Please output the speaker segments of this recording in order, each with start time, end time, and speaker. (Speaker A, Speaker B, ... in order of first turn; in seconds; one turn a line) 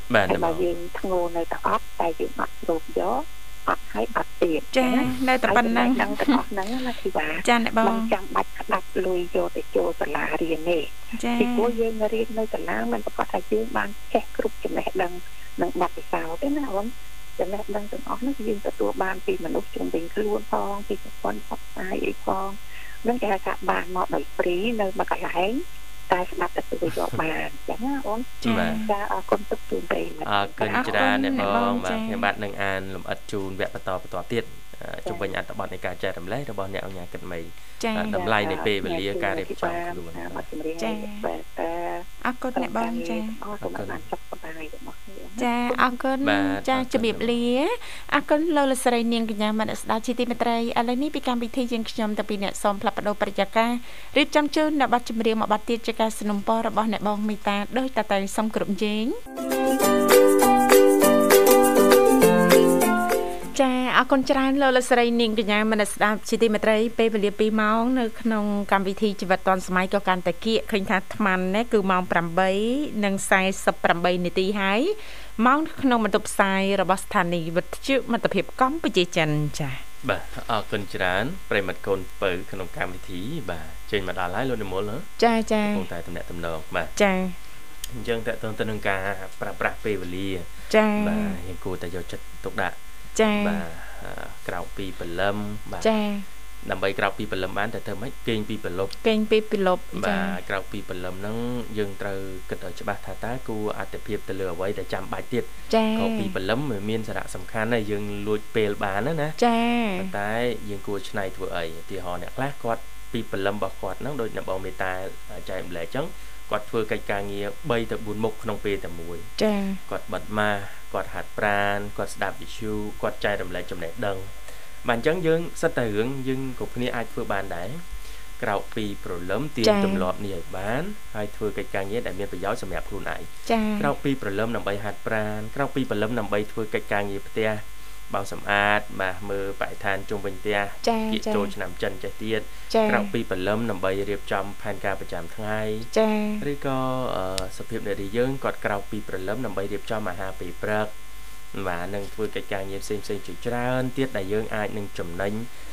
Speaker A: 0.1-0.7
Speaker B: 0.3-31.5
Speaker C: 4.7-6.4
Speaker C: 7.4-8.1
Speaker C: 11.1-11.8
Speaker A: 26.9-27.2
Speaker C: 28.4-28.9
Speaker A: 28.4-28.9
Speaker A: 30.2-40.5
Speaker C: 30.7-32.3
Speaker B: 35.0-35.3
Speaker C: 37.8-38.2
Speaker B: 38.1-45.8
Speaker C: 40.8-41.2
Speaker C: 42.2-43.4
Speaker A: 43.6-44.1
Speaker C: 45.4-59.1
Speaker A: 46.2-47.4
Speaker C: 63.5-79.8
Speaker A: 80.0-85.1
Speaker C: 85.2-85.8
Speaker A: 85.6-86.9
Speaker C: 87.0-87.4
Speaker A: 87.9-92.8
Speaker C: 90.7-91.4
Speaker C: 93.2-93.6
Speaker A: 93.4-95.9
Speaker C: 95.8-96.3
Speaker A: 96.6-99.0
Speaker C: 99.0-100.4
Speaker A: 99.9-109.4
Speaker C: 105.7-106.3
Speaker C: 109.4-110.1
Speaker A: 110.0-119.3
Speaker C: 119.4-119.8
Speaker A: 119.9-145.9
Speaker C: 129.6-130.1
Speaker C: 133.5-133.9
Speaker C: 140.8-141.5
Speaker C: 142.7-143.1
Speaker C: 145.9-146.4
Speaker A: 146.4-150.9
Speaker A: 151.5-155.5